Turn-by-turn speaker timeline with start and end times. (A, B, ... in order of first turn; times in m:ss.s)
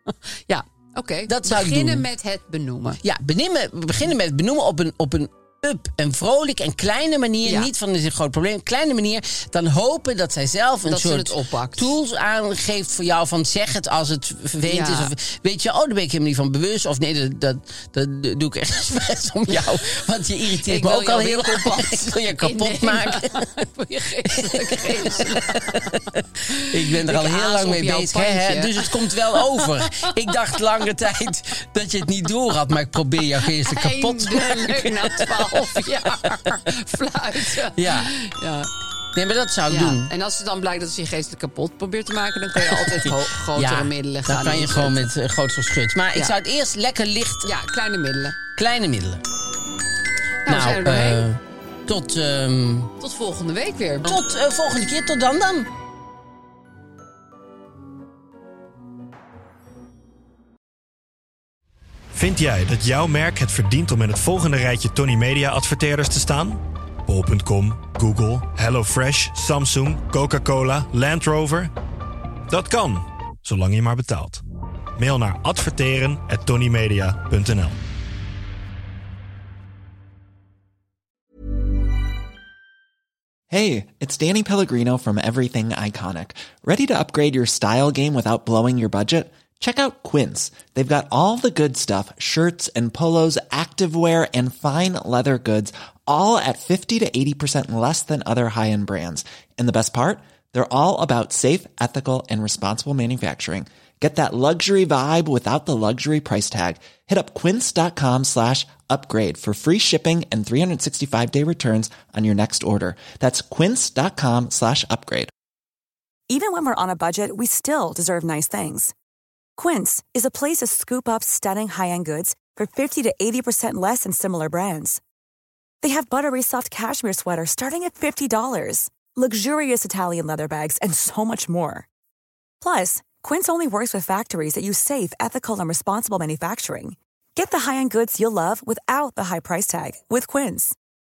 0:00.5-0:03.0 A
0:01.3-0:02.0 B
0:03.0-0:23.4 B
0:07.4-0:07.7 A
0:10.8-0:12.0 A
0:14.6-0:15.1 A
0:19.5-0:30.8 A
0:24.3-0:35.3 B
0:33.4-0:38.7 A
0:37.7-0:38.1 B
0:39.1-0:40.1 B
0:39.7-0:45.1 A
0:42.6-0:47.5 B
0:47.4-0:48.4 A
0:48.5-0:49.2 B
0:50.4-0:51.2 A
0:50.4-0:52.9 B
0:53.0-0:54.2 A
0:54.0-0:55.7 B
1:02.1-1:11.7 C
1:12.5-1:14.4 C
1:15.0-1:17.8 C
1:23.5-1:55.3 D
1:56.3-1:58.9 E
1:59.6-2:05.0 E
2:05.8-2:11.9 E
2:12.6-2:20.7 E